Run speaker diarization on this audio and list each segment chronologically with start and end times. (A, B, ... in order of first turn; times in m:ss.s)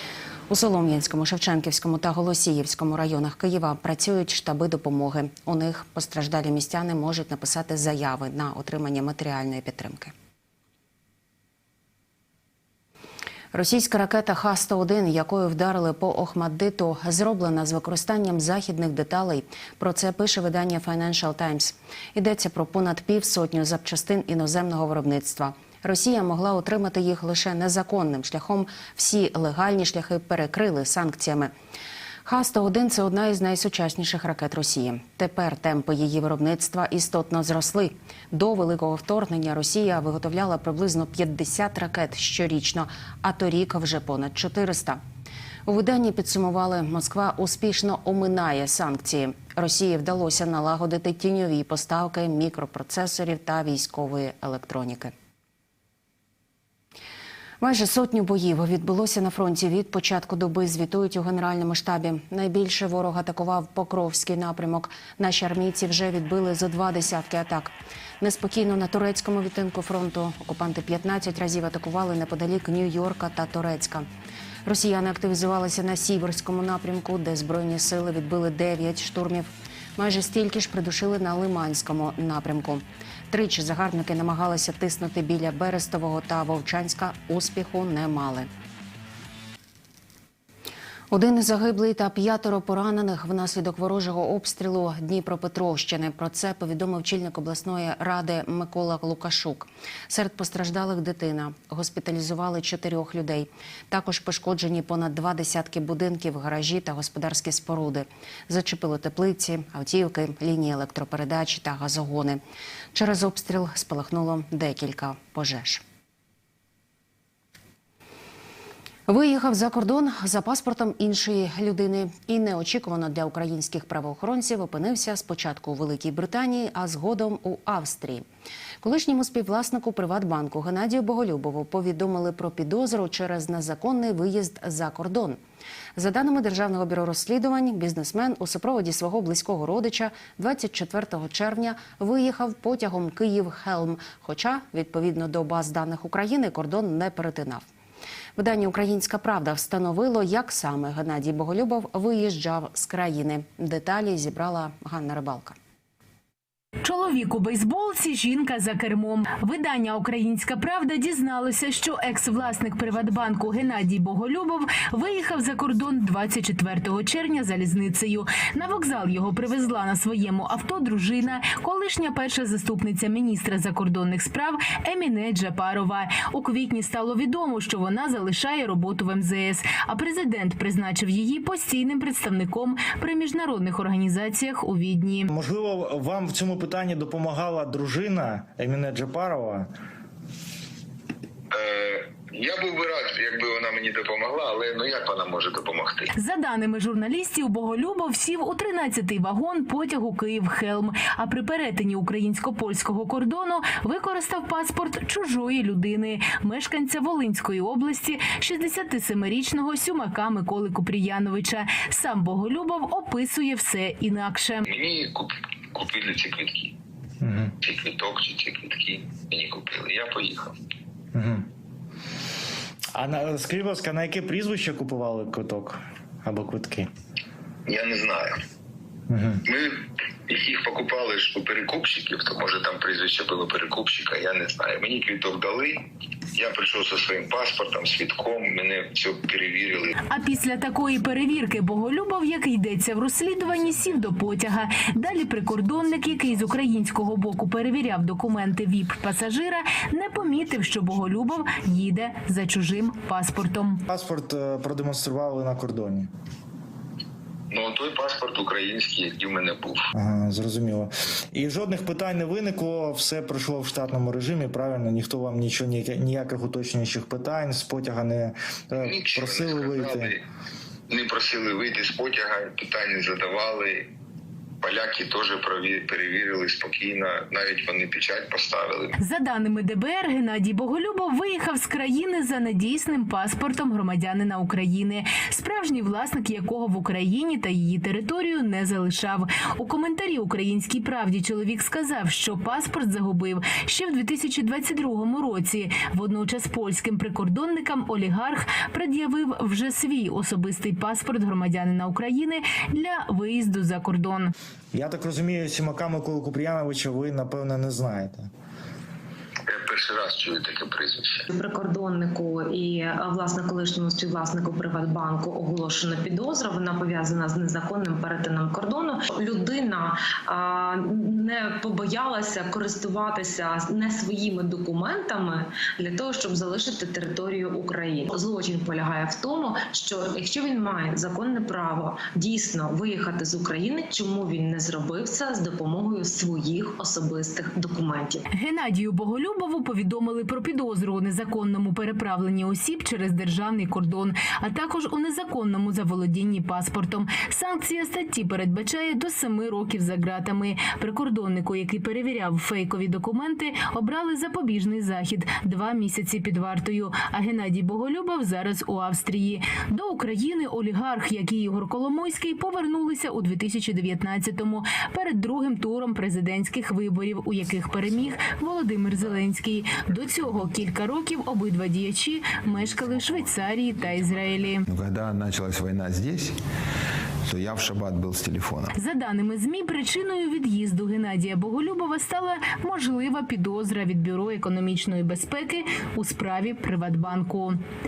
0:00.5-0:10.1 A
0:13.5-0:31.5 A
0:32.2-0:45.0 A
0:45.7-0:55.1 A
0:57.6-1:14.0 A
1:14.7-1:28.5 A
1:31.1-1:52.4 A
1:52.9-1:55.8 A
1:59.1-2:08.2 A
2:08.8-2:15.4 A
2:16.0-2:27.6 A
2:28.4-2:35.6 A
2:36.8-3:05.3 B
3:05.3-3:09.7 C
3:11.5-3:16.1 D
3:16.2-3:34.7 B
3:34.7-3:36.8 D
3:37.2-3:37.5 C
3:37.6-3:40.5 D
3:41.1-3:41.5 C
3:43.0-3:46.9 C
3:47.7-3:48.4 D
3:49.1-3:49.4 C
3:49.4-4:00.0 D
4:00.1-4:13.8 B
4:13.9-4:16.1 C
4:17.5-4:19.9 D
4:20.0-4:30.1 C
4:28.8-4:30.2 D
4:30.9-4:33.9 D
4:34.6-4:39.0 D
4:39.0-5:04.3 B
5:04.7-5:08.3 C
5:09.5-5:11.2 D
5:11.3-5:38.2 E
5:38.3-6:14.6 B
6:12.6-6:13.2 F
6:14.0-6:16.4 F
6:17.3-6:18.7 F
6:18.8-6:27.6 B